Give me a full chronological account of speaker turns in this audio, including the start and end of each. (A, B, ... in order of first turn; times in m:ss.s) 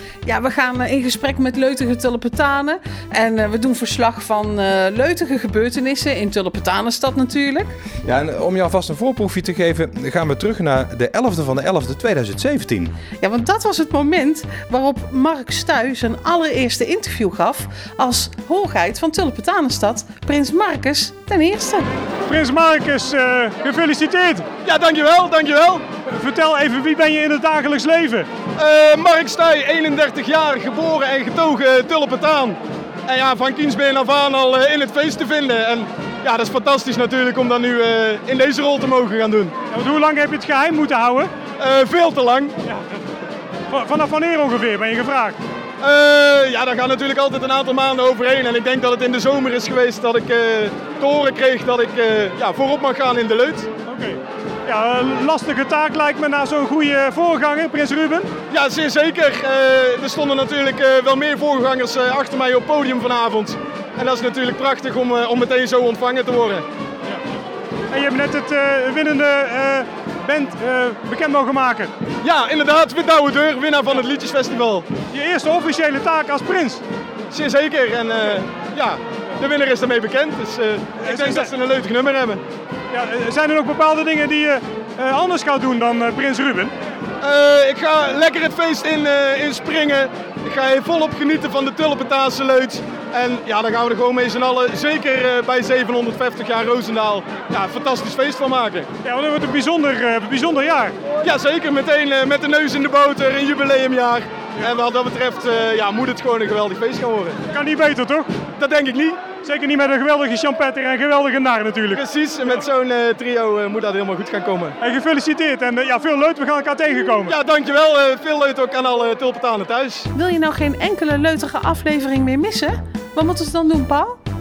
0:00.2-0:07.7 A
0:08.0-0:13.0 B
0:13.2-0:21.9 A
0:22.2-0:24.5 C
0:24.6-0:25.8 D
0:26.1-0:28.3 C
0:28.6-0:39.5 D
0:39.7-0:41.3 C
0:41.6-0:42.6 D
0:43.7-0:45.4 C
0:45.8-0:53.7 D
0:53.9-0:58.3 C
0:58.5-1:06.6 D
1:07.9-1:11.9 C
1:12.2-1:14.9 D
1:15.1-1:16.8 C
1:17.3-1:22.4 D
1:21.0-1:21.5 C
1:22.9-1:26.7 C
1:27.2-1:38.9 D
1:39.0-1:41.0 C
1:41.2-1:47.4 D
1:47.5-1:48.3 C
1:48.5-1:49.3 D
1:49.4-1:52.0 C
1:51.9-1:54.8 D
1:54.8-1:57.3 C
1:57.2-2:00.1 D
2:00.1-2:04.2 A